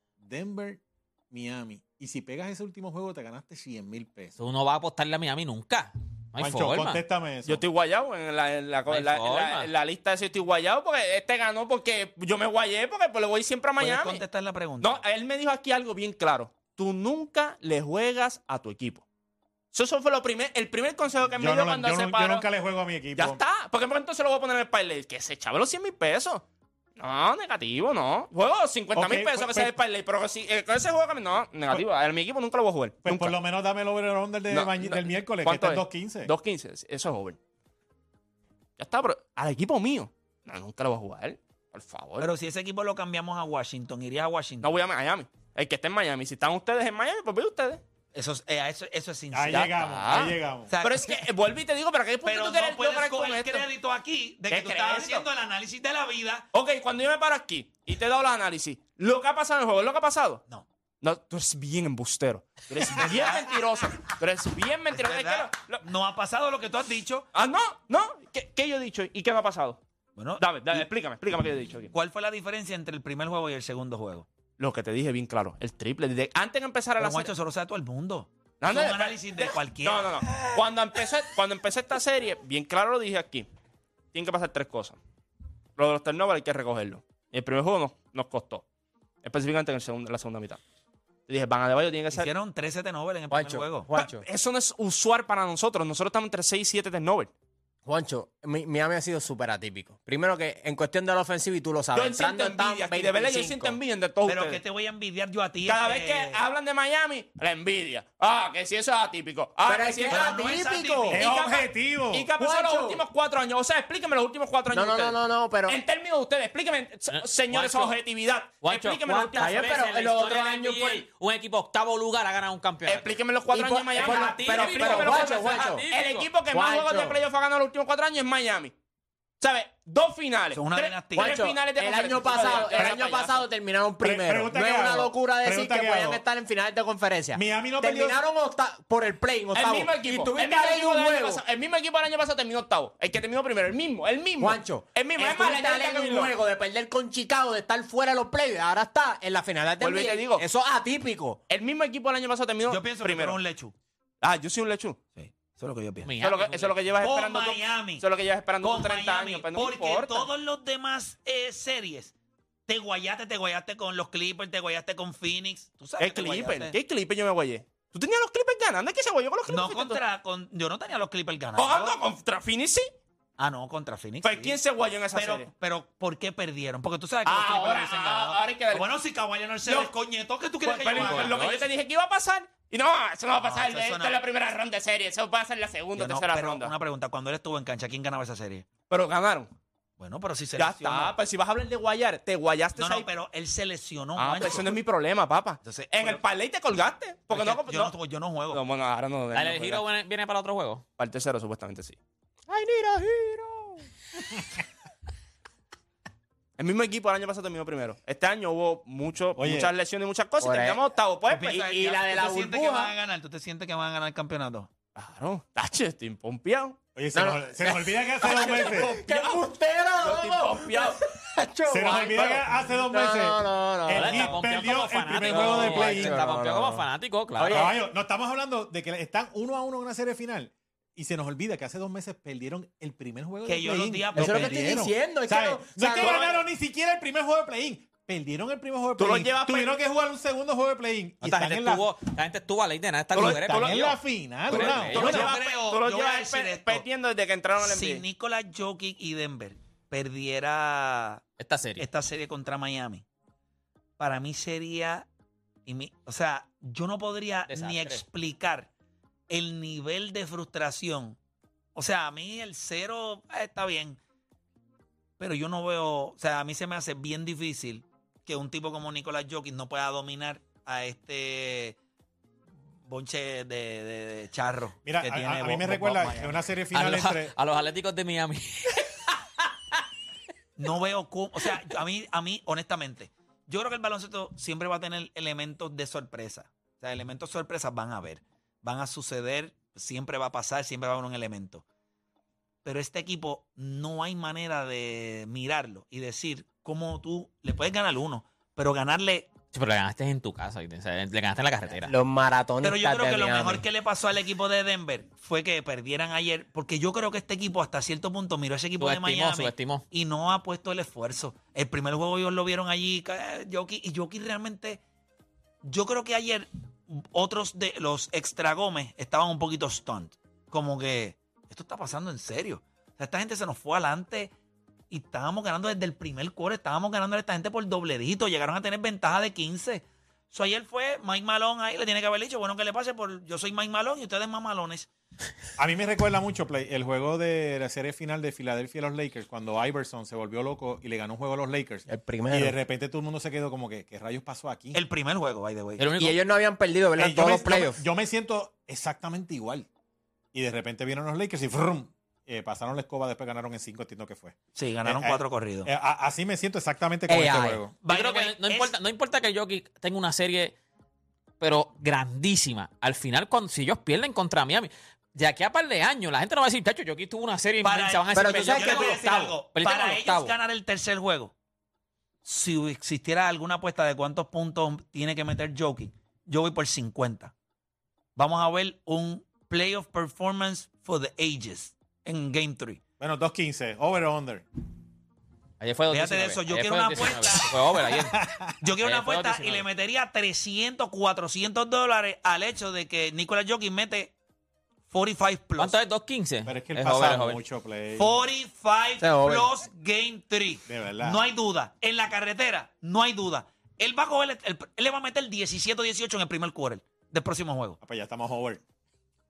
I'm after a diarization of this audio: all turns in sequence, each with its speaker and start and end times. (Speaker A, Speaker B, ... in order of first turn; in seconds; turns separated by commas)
Speaker A: 0.2-4.3, Speaker B: 4.4-7.0, Speaker A: 6.4-7.6, Speaker C: 7.4-14.2, Speaker B: 8.9-9.7, Speaker D: 13.8-15.0, Speaker C: 14.8-19.0, Speaker C: 19.7-22.5, Speaker A: 21.2-23.4, Speaker C: 23.1-26.4, Speaker C: 27.0-33.3, Speaker A: 28.9-29.8, Speaker A: 33.0-36.3, Speaker C: 34.5-37.4, Speaker C: 38.8-42.3, Speaker D: 42.2-44.8, Speaker C: 44.6-47.8, Speaker D: 48.1-49.8, Speaker A: 49.3-50.7, Speaker C: 49.5-53.7, Speaker D: 50.7-51.2, Speaker D: 52.2-56.5, Speaker C: 54.5-55.3, Speaker C: 56.5-60.4, Speaker C: 61.0-65.8, Speaker D: 62.9-63.6, Speaker D: 64.9-67.3, Speaker C: 67.3-69.8, Speaker D: 70.2-70.9, Speaker C: 70.4-71.9, Speaker D: 71.9-74.3, Speaker C: 74.6-77.3, Speaker D: 77.0-80.5, Speaker C: 78.6-83.5, Speaker C: 84.1-85.0, Speaker C: 85.8-88.6, Speaker C: 89.2-90.6, Speaker C: 91.3-92.3, Speaker D: 92.1-93.9, Speaker E: 93.3-94.2, Speaker C: 93.9-97.3, Speaker E: 97.8-103.8, Speaker C: 101.9-104.6, Speaker D: 104.2-106.4, Speaker C: 105.6-110.5, Speaker E: 109.7-111.2, Speaker D: 110.1-111.3, Speaker C: 111.1-119.9, Speaker A: 111.1-112.3, Speaker E: 112.3-113.0, Speaker E: 114.7-115.8, Speaker B: 117.1-118.0, Speaker B: 118.6-123.2, Speaker E: 119.1-121.0, Speaker C: 122.8-128.7, Speaker E: 123.5-125.8, Speaker B: 123.9-126.3, Speaker E: 126.5-127.2, Speaker C: 129.4-133.4, Speaker D: 130.5-131.4, Speaker E: 131.1-141.4, Speaker A: 134.0-136.2, Speaker A: 137.3-138.2, Speaker C: 139.5-146.3, Speaker E: 144.4-151.4, Speaker C: 149.8-150.4, Speaker C: 151.5-153.4, Speaker D: 152.6-153.7, Speaker C: 154.2-155.0, Speaker D: 155.2-156.1, Speaker B: 156.0-156.8, Speaker C: 156.2-160.3, Speaker D: 157.0-158.0, Speaker D: 158.6-162.1, Speaker D: 162.7-166.8, Speaker C: 166.0-170.0, Speaker D: 169.5-172.0, Speaker C: 171.5-172.9, Speaker D: 173.4-174.6, Speaker C: 174.2-175.5, Speaker D: 175.1-181.7, Speaker C: 177.2-178.9, Speaker C: 179.6-179.9, Speaker C: 180.6-186.7, Speaker B: 180.9-181.5, Speaker D: 183.4-184.2, Speaker D: 185.9-188.7, Speaker C: 188.9-189.5, Speaker D: 190.0-191.2, Speaker C: 190.6-193.1, Speaker D: 192.7-194.8, Speaker C: 194.2-197.9, Speaker D: 195.6-196.2, Speaker D: 197.3-198.6, Speaker C: 198.5-199.8, Speaker B: 199.3-200.8, Speaker C: 201.0-202.0, Speaker E: 202.5-203.8, Speaker C: 206.6-211.8, Speaker A: 209.3-209.7, Speaker E: 210.4-210.8, Speaker D: 211.3-214.7, Speaker E: 211.5-212.9, Speaker C: 214.9-216.8, Speaker A: 216.9-219.0, Speaker E: 217.1-224.4, Speaker C: 219.1-219.4, Speaker C: 220.0-221.0, Speaker A: 221.7-226.2, Speaker B: 223.9-227.8, Speaker E: 225.2-226.8, Speaker E: 227.3-227.7, Speaker A: 227.5-241.9, Speaker D: 233.4-234.8, Speaker E: 234.2-236.4, Speaker D: 235.9-236.3, Speaker C: 239.0-239.7, Speaker B: 241.2-244.0, Speaker C: 243.1-244.0, Speaker A: 243.2-245.3, Speaker B: 244.5-245.3, Speaker C: 244.5-248.0, Speaker D: 244.9-246.9, Speaker D: 247.6-251.2, Speaker B: 251.4-251.8, Speaker D: 251.8-253.0, Speaker D: 254.0-255.1, Speaker D: 255.7-258.7, Speaker B: 257.5-258.0, Speaker D: 259.3-261.2, Speaker D: 261.7-264.0, Speaker D: 265.2-271.8, Speaker D: 272.9-276.4, Speaker A: 274.8-277.3, Speaker B: 276.7-279.8, Speaker D: 280.6-291.6, Speaker D: 292.6-299.3, Speaker B: 299.5-301.9, Speaker E: 301.9-303.6, Speaker D: 302.6-314.8, Speaker B: 308.8-309.8, Speaker D: 315.6-324.3, Speaker D: 324.9-334.9, Speaker A: 335.6-344.8, Speaker E: 341.9-342.6, Speaker D: 344.7-345.8, Speaker B: 345.8-346.2, Speaker E: 346.0-347.8, Speaker A: 347.0-349.7, Speaker A: 350.3-357.8, Speaker D: 354.5-355.7, Speaker E: 357.1-357.6, Speaker D: 357.8-358.7, Speaker B: 357.9-360.5, Speaker B: 361.4-370.3, Speaker D: 367.6-371.3, Speaker E: 368.1-369.4, Speaker D: 372.2-377.3, Speaker D: 378.1-382.8, Speaker A: 383.0-384.4, Speaker B: 385.6-388.2, Speaker D: 385.9-387.6, Speaker A: 388.1-388.5, Speaker D: 388.6-394.1, Speaker B: 388.8-389.6, Speaker D: 394.9-395.7, Speaker B: 395.6-397.4, Speaker A: 396.4-398.2, Speaker D: 397.9-407.8, Speaker E: 399.0-399.5, Speaker A: 400.7-401.2, Speaker A: 407.8-408.6